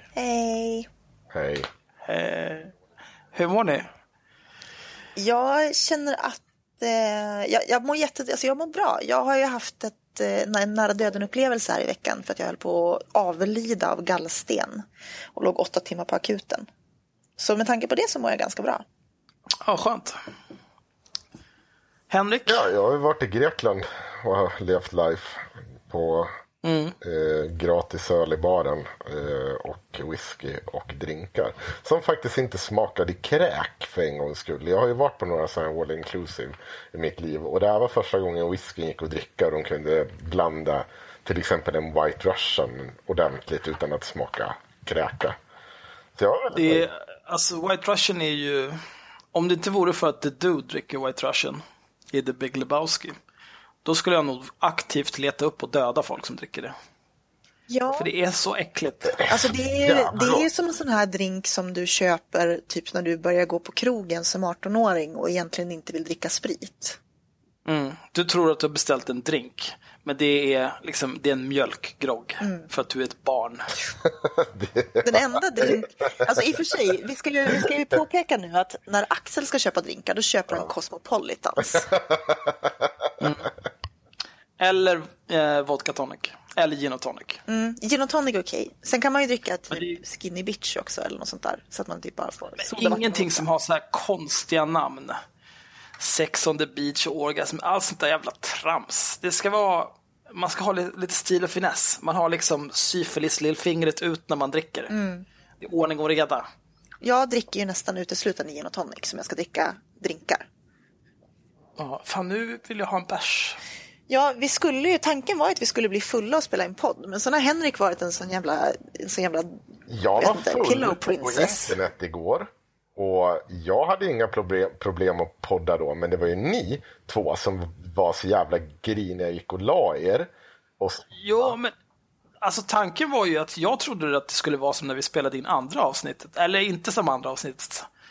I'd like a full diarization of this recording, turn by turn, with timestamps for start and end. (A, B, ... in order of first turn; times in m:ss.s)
0:00.2-0:00.9 A
0:01.3-0:01.7 B
0:02.0-0:02.7 C
0:03.3-0:03.9 C
0:05.2-0:16.7 A
0:17.4-0:18.8 A
0:19.6-0:20.2 C
0:22.1-0:22.6 C
0:22.4-0:26.3 B
0:26.6-0:27.0 C
0:27.0-0:45.4 B
0:46.2-0:46.9 B
0:46.5-0:48.8 C
0:49.3-0:53.2 C
0:53.8-0:56.7 C
0:57.7-0:58.1 A
0:57.9-0:59.2 C
0:59.2-1:00.5 B
0:59.3-1:07.0 A
1:07.6-1:13.7 C
1:12.4-1:12.7 A
1:14.2-1:15.2 B
1:15.0-1:22.0 A
1:22.1-1:22.9 B
1:23.2-1:23.5 C
1:24.6-1:27.4 C
1:27.5-1:33.4 A
1:29.7-1:30.0 C
1:32.6-1:35.2 C
1:36.0-1:44.9 C
1:44.9-1:45.2 A
1:45.6-1:46.5 C
1:47.0-1:50.4 A
1:51.8-1:53.6 C
1:54.1-1:59.6 A
1:59.9-2:11.5 B
2:00.2-2:01.8 A
2:11.2-2:11.7 C
2:12.4-2:17.9 C